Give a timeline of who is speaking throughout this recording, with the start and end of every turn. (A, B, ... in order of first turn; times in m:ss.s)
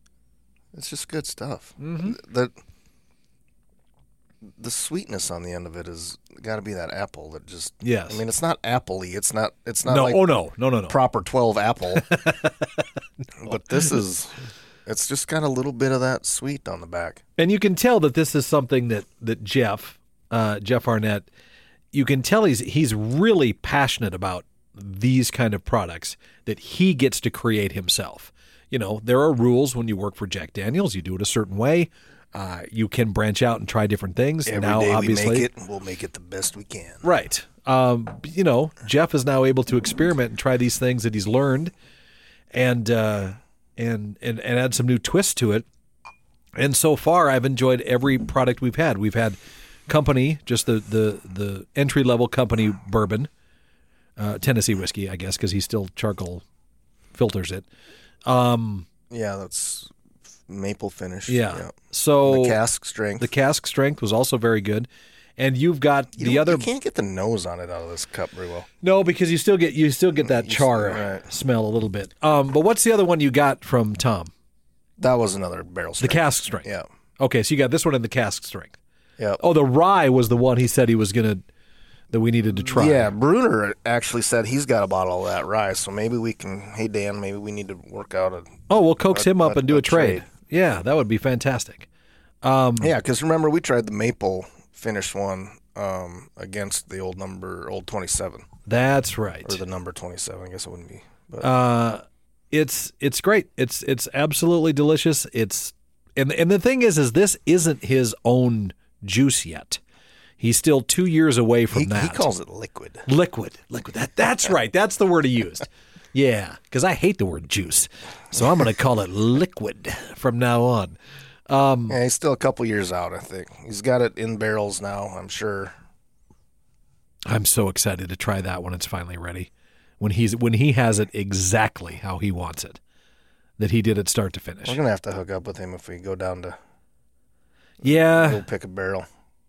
0:00.7-0:02.5 A
0:01.8-0:02.2 B
0:04.6-0:10.3 A
0:07.8-0:08.2 B
0:09.8-0:11.0 B
0:10.9-0:12.1 A
0:12.0-0:12.8 B
0:13.4-0:14.3 A
0:14.8-0:17.2 A
0:17.4-0:21.3 B
0:21.9-0:35.5 B
0:34.4-0:37.0 A
0:37.0-0:41.7 B
0:42.5-0:45.6 B
0:46.6-0:49.4 B
0:49.9-0:53.3 B
0:54.2-0:56.4 B
0:57.1-0:57.7 B
0:58.2-0:58.9 B
0:59.1-0:59.9 A
1:00.5-1:01.7 A
1:01.3-1:02.6 B
1:02.2-1:03.3 A
1:03.2-1:04.9 B
1:05.4-1:06.7 B
1:06.2-1:08.7 A
1:08.8-1:14.3 B
1:10.2-1:11.3 A
1:15.0-1:16.8 A
1:16.0-1:16.7 B
1:17.2-1:18.8 B
1:19.4-1:21.4 B
1:22.1-1:23.1 B
1:22.6-1:28.6 A
1:28.7-1:31.9 B
1:29.1-1:30.2 A
1:32.4-1:32.9 B
1:32.8-1:38.5 A
1:38.7-1:39.6 B
1:39.4-1:41.5 A
1:41.4-1:49.8 B
1:50.4-1:52.3 B
1:51.7-1:53.0 A
1:53.0-2:01.0 B
2:01.5-2:02.0 B
2:01.9-2:05.7 A
2:07.3-2:12.8 B
2:13.6-2:14.8 B
2:14.6-2:16.6 A
2:17.8-2:18.4 B
2:17.8-2:19.1 A